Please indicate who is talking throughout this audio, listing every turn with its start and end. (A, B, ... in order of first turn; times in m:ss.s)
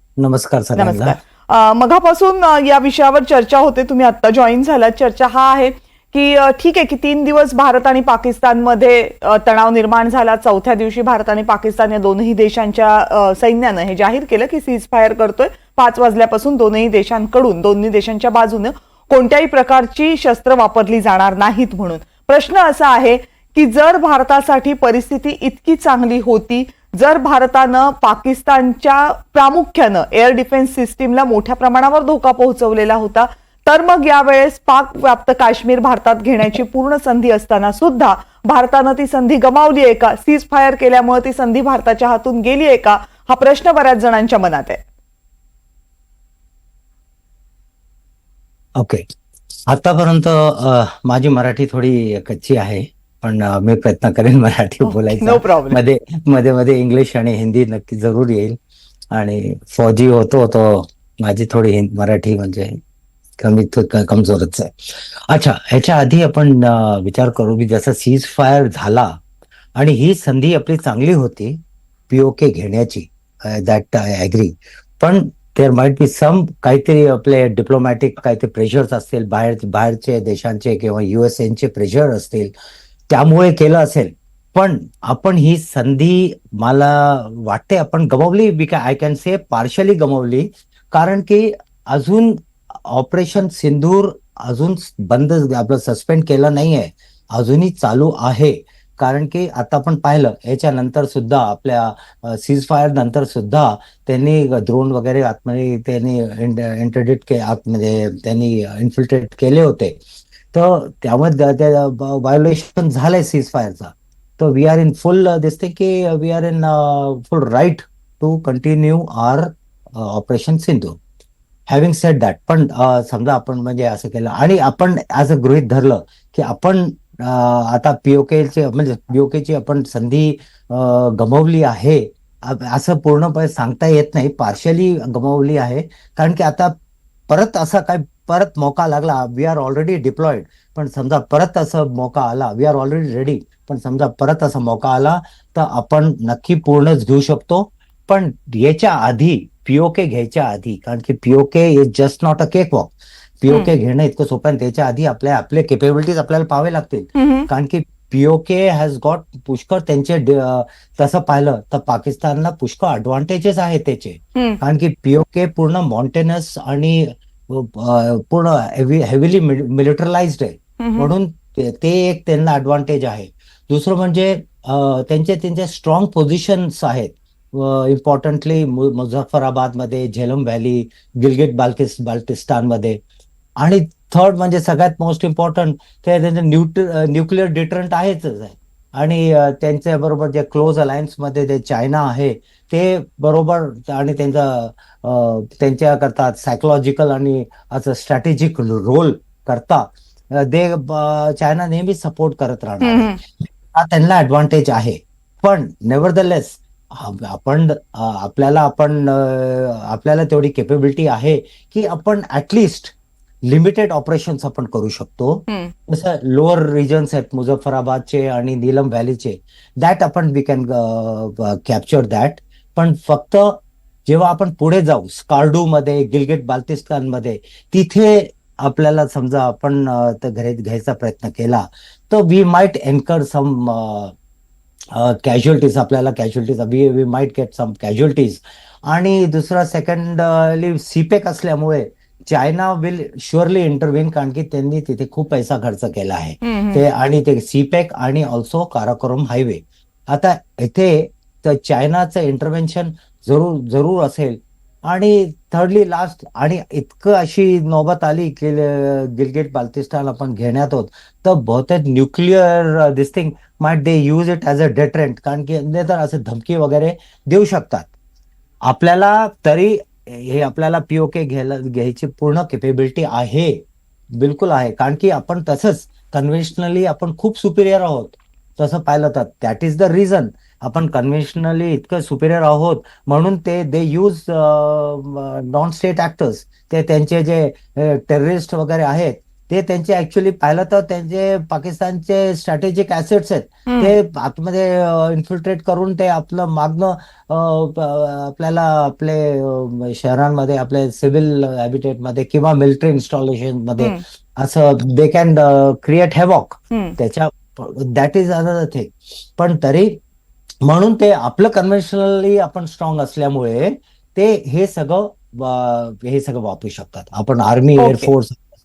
0:00.2-0:01.2 A
0:00.8-0:44.8 B
0:48.8-0:49.0 A
0:49.7-0:58.6 A
0:54.8-0:55.8 B
0:59.1-1:02.8 A
1:03.4-1:09.2 A
1:09.8-1:22.5 A
1:23.1-1:50.0 A
1:50.5-2:01.0 A
2:01.7-2:16.8 A
2:17.3-3:03.0 A
2:37.2-2:37.5 B
2:44.3-2:44.6 B
2:50.8-2:51.1 B
3:03.6-3:54.1 A
3:22.8-3:23.2 B
3:35.5-3:35.7 B
3:54.9-4:27.9 A
4:06.4-4:06.8 B
4:28.6-4:33.6 A
4:34.2-5:10.0 A
4:53.7-4:53.9 B
5:06.7-5:07.0 B
5:10.6-5:18.4 A
5:17.8-5:18.1 B